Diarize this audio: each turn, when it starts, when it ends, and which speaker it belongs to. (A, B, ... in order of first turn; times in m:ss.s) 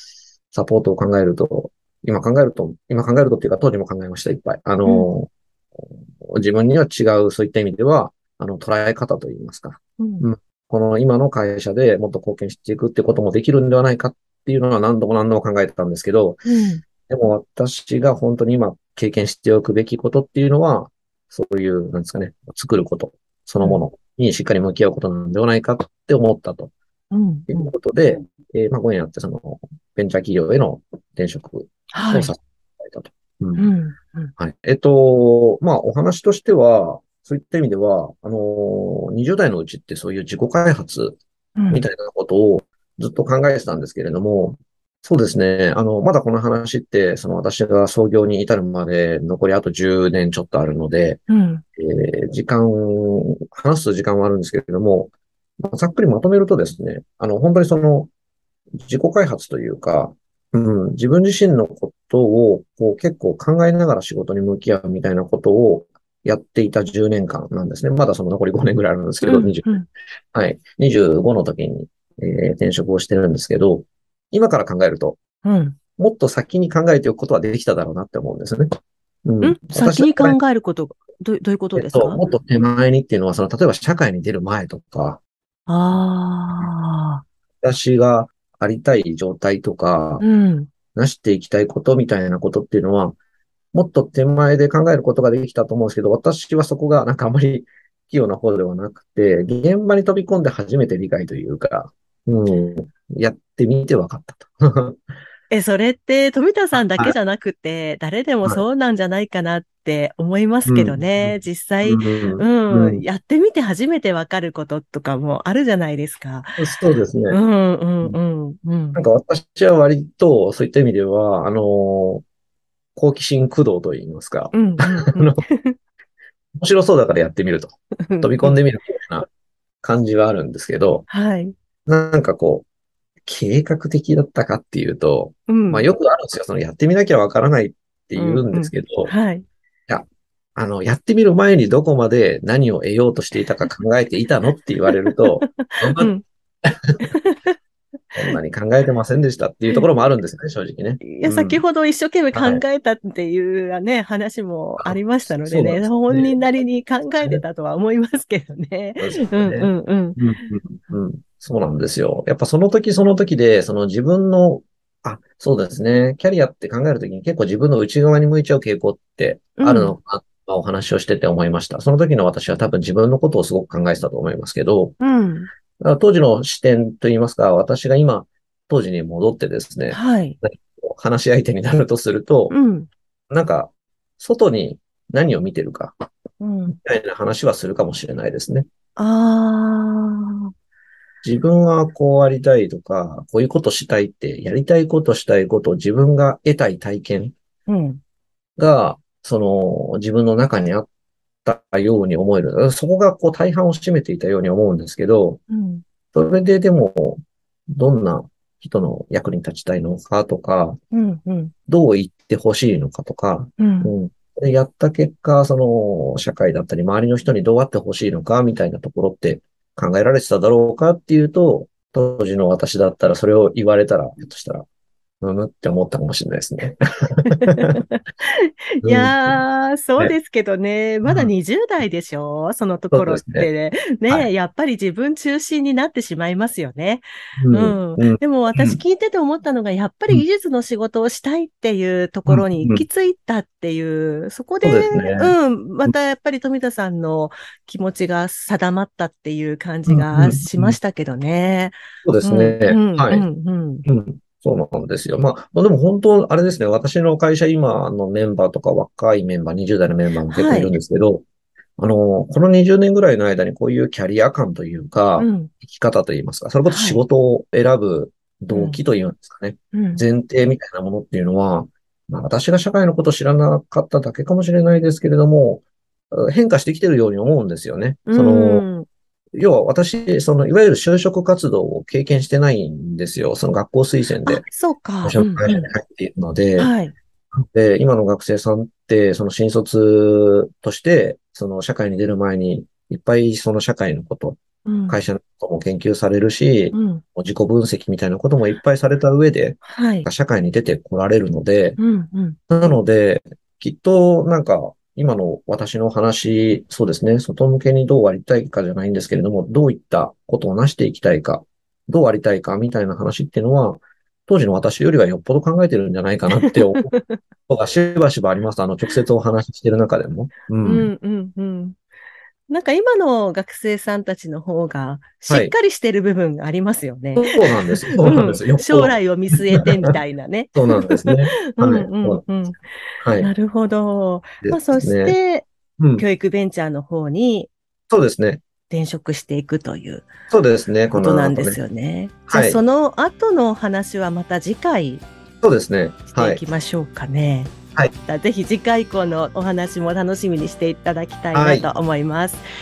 0:00.5-0:16.5 A
0:10.0-0:10.3 B
0:16.5-0:16.8 B
0:17.1-0:26.7 A
0:27.1-0:27.7 B
0:27.5-0:33.7 A
0:31.9-0:32.3 B
0:33.6-0:34.3 B
0:34.4-0:41.2 A
0:41.6-0:41.8 B
0:41.7-0:51.2 A
0:51.3-0:51.6 B
0:51.8-0:58.1 A
0:58.8-1:09.8 A
1:09.2-1:09.9 B
1:10.3-1:15.2 A
1:15.4-1:15.8 B
1:16.0-1:18.7 A
1:19.2-1:20.4 A
1:19.4-1:22.2 B
1:21.8-1:25.2 A
1:25.7-1:27.2 B
1:27.6-1:30.2 A
1:30.2-1:30.7 B
1:30.9-1:33.2 A
1:33.7-1:45.0 A
1:45.5-1:56.6 B
1:46.7-1:47.2 A
1:50.7-1:53.0 A
1:56.6-1:57.4 A
1:57.3-1:59.0 B
1:59.0-2:02.2 A
2:03.0-2:05.4 A
2:04.5-2:05.8 B
2:06.6-2:09.3 A
2:08.1-2:08.6 B
2:09.8-2:11.0 A
2:11.1-2:11.6 B
2:11.9-2:12.7 A
2:13.2-2:19.1 A
2:15.5-2:15.9 B
2:18.2-2:19.5 B
2:19.9-2:26.1 A
2:25.1-2:26.2 B
2:26.6-2:27.0 A
2:27.1-2:27.6 B
2:28.2-2:31.6 A
2:31.0-2:40.2 B
2:32.3-2:32.6 A
2:34.8-2:36.5 A
2:39.0-2:55.0 A
2:49.6-2:50.0 B
2:55.0-2:55.5 B
2:55.8-3:02.6 A
2:59.9-3:00.4 B
3:02.5-3:02.9 B
3:03.3-3:06.0 A
3:06.4-3:06.8 B
3:06.7-3:08.7 A
3:09.0-3:10.5 B
3:11.2-3:17.3 A
3:17.7-3:18.0 B
3:18.6-3:20.9 A
3:21.4-3:25.4 A
3:25.5-3:25.8 B
3:26.1-3:30.8 A
3:30.9-3:31.5 B
3:31.7-3:44.7 A
3:33.6-3:33.9 B
3:45.2-3:47.7 A
3:47.4-4:13.8 B
3:48.8-3:49.4 A
3:51.0-3:51.3 A
3:52.9-3:53.5 A
3:57.4-3:58.8 A
4:02.3-4:02.8 A
4:04.6-4:05.9 A
4:09.9-4:10.8 A
4:12.0-4:13.3 A
4:13.8-4:21.2 A
4:20.3-4:20.8 B
4:21.8-4:38.7 A
4:25.2-4:25.5 B
4:26.7-4:27.0 B
4:28.5-4:28.8 B
4:29.7-4:30.0 B
4:38.1-4:38.9 B
4:39.4-4:44.5 A
4:44.3-4:45.7 B
4:45.0-4:46.7 A
4:46.6-4:46.9 B
4:47.3-4:54.4 A
4:54.7-4:55.0 B
4:54.9-5:01.8 A
4:56.7-4:57.0 B
4:59.6-5:00.1 B
5:01.8-5:02.6 B
5:02.5-5:16.9 A
5:16.4-5:17.2 B
5:17.5-5:20.9 A
5:20.6-5:21.8 B
5:22.5-5:32.6 B
5:25.3-5:25.5 A
5:27.2-5:29.0 A
5:30.6-5:32.3 A
5:33.0-5:33.3 A
5:33.2-5:37.5 B
5:34.4-5:35.2 A
5:35.8-5:36.1 A
5:37.9-5:38.4 A
5:38.7-5:40.1 B
5:40.3-5:41.6 A
5:40.9-5:45.0 B
5:42.3-5:42.6 A
5:45.4-5:46.4 A
5:46.1-5:47.5 B
5:48.1-5:52.4 B
5:51.3-5:51.7 A